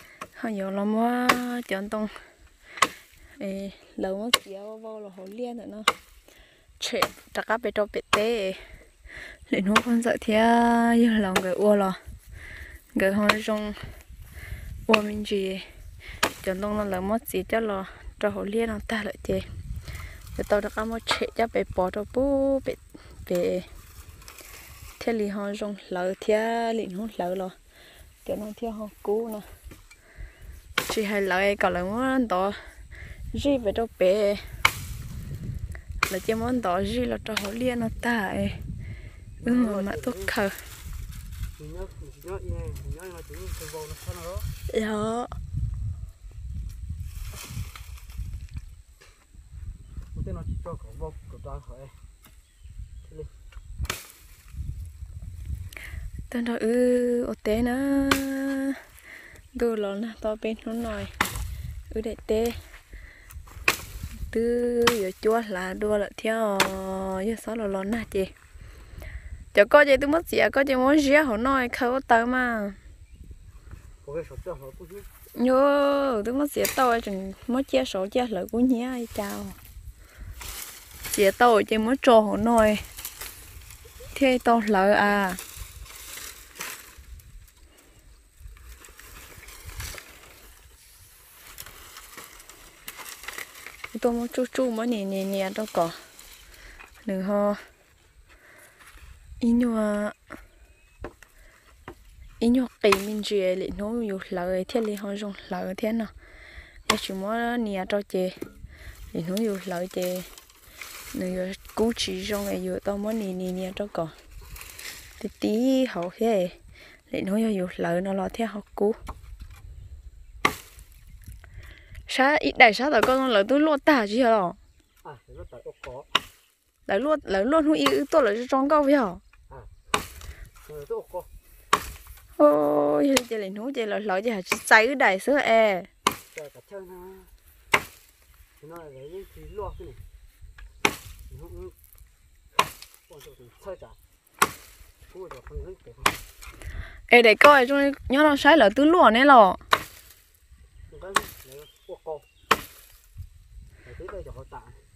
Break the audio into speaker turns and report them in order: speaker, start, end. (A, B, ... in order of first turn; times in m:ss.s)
0:00.4-0:02.1 A
0:03.4-0:05.9 A
0:06.8-0:08.6 A
0:09.2-0:12.0 A
0:13.0-0:13.9 A
0:14.9-0:15.7 A
0:16.4-0:19.4 A
0:20.3-0:23.7 A
0:25.0-0:27.6 A
0:28.2-0:29.5 A
0:30.8-0:32.6 A
0:33.3-0:34.4 A
0:36.1-0:38.7 A
0:39.4-0:40.3 B
0:39.4-0:40.6 A
0:41.6-0:44.5 B
0:44.7-0:45.4 A
0:50.2-0:52.0 B
0:53.0-0:53.3 B
0:56.3-0:58.8 A
0:59.6-1:01.1 A
1:01.9-1:02.6 A
1:04.3-1:08.3 A
1:09.5-1:12.8 A
1:14.0-1:15.1 B
1:15.3-1:19.6 A
1:21.1-1:22.8 A
1:24.1-1:25.4 A
1:33.9-1:36.0 A
1:37.0-1:37.6 A
1:39.4-1:40.2 A
1:42.4-1:46.1 A
1:46.9-1:48.4 A
1:49.1-1:50.3 A
1:51.1-1:54.2 A
1:55.2-1:56.6 A
1:57.1-1:59.0 A
2:02.1-2:04.6 A
2:05.0-2:06.1 B
2:06.9-2:09.2 A
2:10.6-2:11.3 B
2:12.4-2:15.9 A
2:16.3-2:17.3 B
2:18.6-2:20.0 B
2:21.3-2:21.8 B
2:23.1-2:24.0 B
2:25.1-2:26.2 B
2:27.1-2:29.6 A
2:30.9-2:32.2 B
2:33.8-2:34.8 B